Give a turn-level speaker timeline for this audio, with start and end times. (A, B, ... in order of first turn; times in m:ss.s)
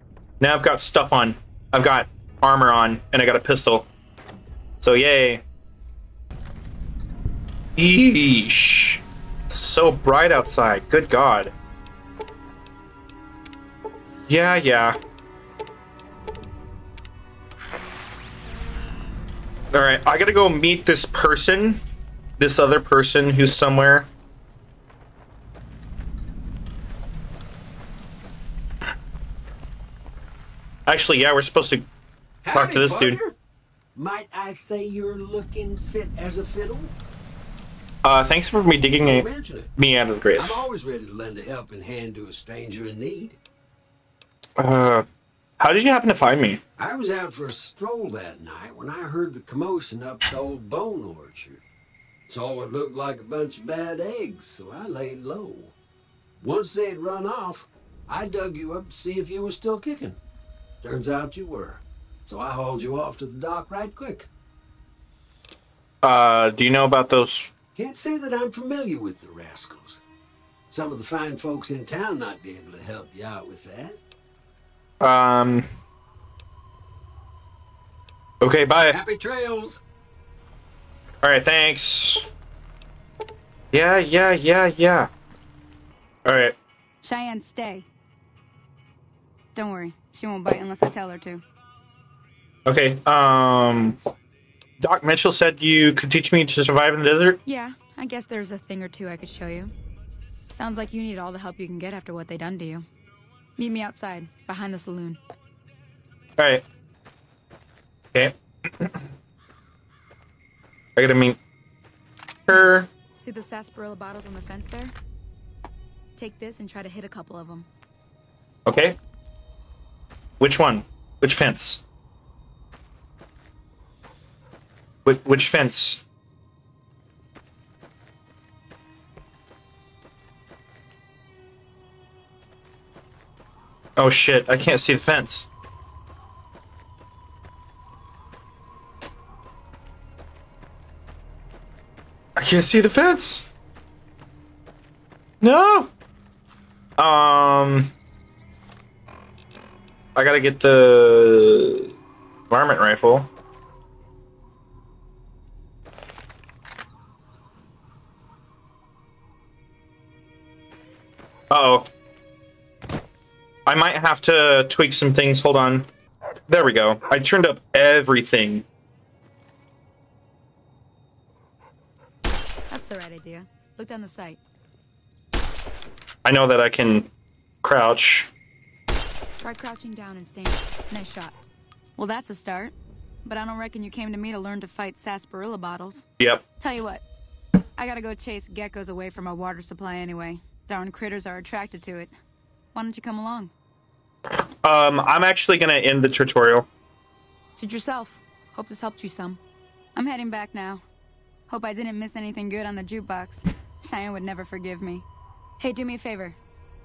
0:00.4-0:03.9 A
0:04.8-0:05.4 A
0:07.8-0:11.5 A
0:14.3-0:15.0 A
0:19.7-0:21.8 A
0:22.4-0:24.1 A
0:30.9-0:31.9 A
0:32.4-0:33.4 B
0:32.5-0:33.2 A
0:34.0-0:37.0 B
0:38.0-0:40.6 A
0:39.0-0:39.7 B
0:40.4-0:43.4 B
0:44.6-0:45.0 A
0:45.6-0:46.6 A
0:46.8-0:51.6 B
0:52.3-0:55.7 B
0:56.4-1:00.2 B
1:00.8-1:04.3 B
1:06.0-1:07.5 A
1:07.8-1:10.0 B
1:10.7-1:14.0 B
1:15.0-1:15.6 A
1:18.4-1:19.0 A
1:18.9-1:19.8 B
1:21.2-1:22.2 A
1:23.7-1:25.1 A
1:26.2-1:26.6 A
1:27.0-1:27.9 C
1:29.6-1:31.4 C
1:32.7-1:34.0 A
1:34.8-1:37.4 A
1:37.5-1:39.7 C
1:40.5-1:42.9 C
1:43.6-1:45.2 C
1:46.4-1:46.6 A
1:48.1-1:48.9 A
1:51.0-1:51.4 A
1:52.5-1:52.9 A
1:53.2-1:54.9 C
1:56.2-1:57.7 C
1:58.7-1:59.0 A
2:00.4-2:01.8 A
2:05.0-2:06.0 A
2:14.0-2:15.5 A
2:22.4-2:23.5 A
2:25.4-2:25.9 A
2:27.0-2:27.9 A
2:30.2-2:31.9 A
2:32.5-2:33.3 A
2:41.5-2:41.9 A
2:43.7-2:45.9 A
2:46.5-2:48.6 A
2:52.7-2:54.4 C
2:56.2-2:57.1 A
2:57.6-2:58.3 A
2:59.4-3:01.4 C
3:02.0-3:02.7 C
3:03.2-3:06.0 C
3:06.2-3:06.4 A
3:06.6-3:07.0 C
3:07.8-3:12.1 C
3:12.7-3:13.5 C
3:14.6-3:16.7 A
3:17.6-3:19.4 C
3:20.0-3:20.8 C
3:21.5-3:25.0 C
3:25.6-3:26.4 C